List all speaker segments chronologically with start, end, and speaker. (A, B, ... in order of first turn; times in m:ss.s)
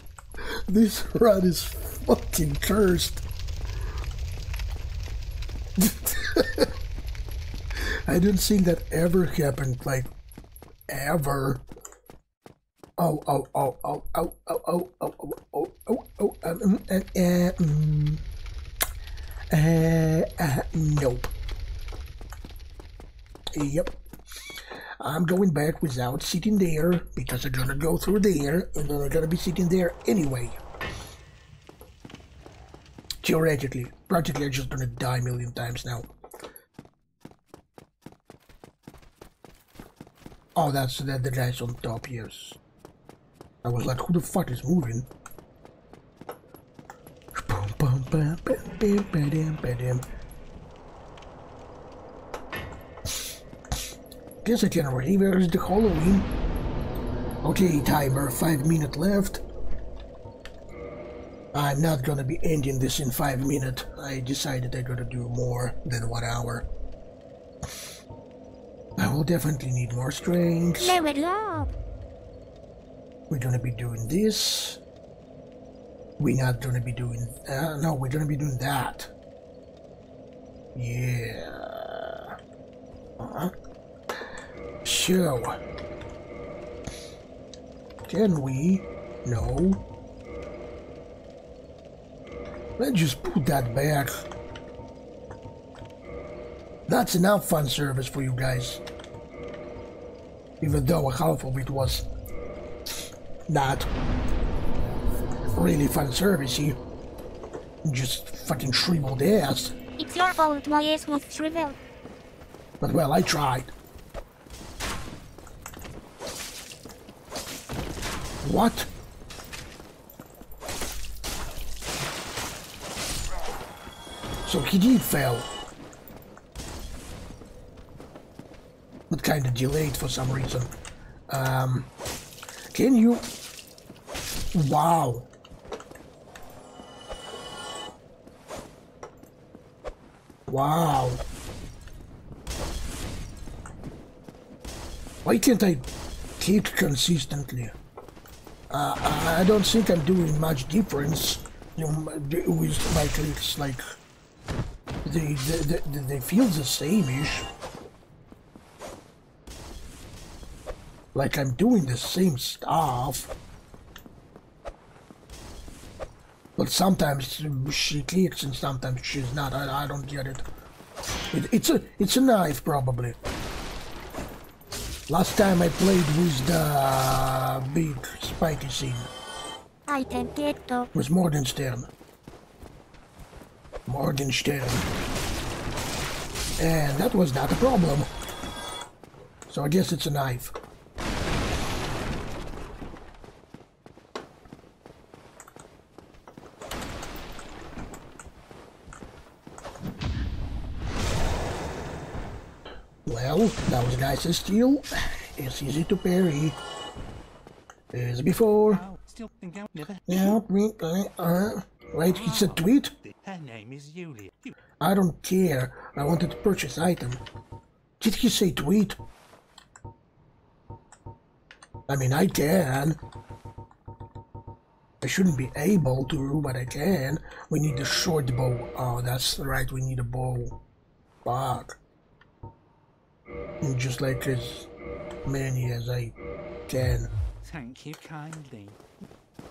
0:00.4-0:03.2 A
0:05.8-0:06.7 A
0:07.8-0:10.1 A
0:10.9-0:11.6 A
0:13.0-0:18.2 A
0:19.5-0:21.3 A
0:23.5-0:24.0 A
0:25.0-0:30.6 A
0:33.2-0:36.1 A
0:40.6-0:42.6 A
0:43.6-0:45.1 A
0:47.3-0:50.0 A
0:54.4-0:56.3 A
0:57.4-0:59.4 A
1:01.5-1:06.7 A
1:09.0-1:11.0 A
1:10.8-1:11.7 B
1:13.3-1:14.8 A
1:16.2-1:19.1 A
1:20.7-1:22.4 A
1:23.2-1:23.5 A
1:24.8-1:25.6 A
1:28.1-1:29.8 A
1:32.8-1:34.2 A
1:36.9-1:38.8 A
1:40.6-1:42.1 A
1:43.5-1:43.9 A
1:45.6-1:46.8 A
1:47.8-1:49.7 A
1:50.0-1:51.8 B
1:52.8-1:53.7 A
1:58.4-1:58.9 A
2:04.4-2:05.5 A
2:09.1-2:10.7 A
2:11.3-2:11.9 A
2:12.7-2:13.3 A
2:14.5-2:15.3 A
2:20.5-2:21.2 A
2:25.2-2:25.8 A
2:26.4-2:27.7 A
2:28.7-2:33.8 A
2:35.0-2:37.4 A
2:41.1-2:43.3 A
2:46.6-2:50.4 A
2:51.3-2:53.2 A
2:55.1-2:59.1 A
2:59.9-3:00.9 B
3:00.9-3:01.9 A
3:03.9-3:04.9 A
3:06.6-3:08.1 A
3:09.5-3:10.5 A
3:23.0-3:26.6 A
3:27.9-3:28.8 A
3:28.7-3:30.4 C
3:30.1-3:32.9 A
3:32.0-3:34.5 C
3:34.8-3:37.2 A
3:38.0-3:39.0 A
3:41.9-3:43.0 A
3:45.0-3:50.6 A
3:51.2-3:51.8 A
3:53.6-3:54.7 A
3:55.2-3:56.1 A
3:56.7-3:57.1 A
3:57.4-3:58.8 C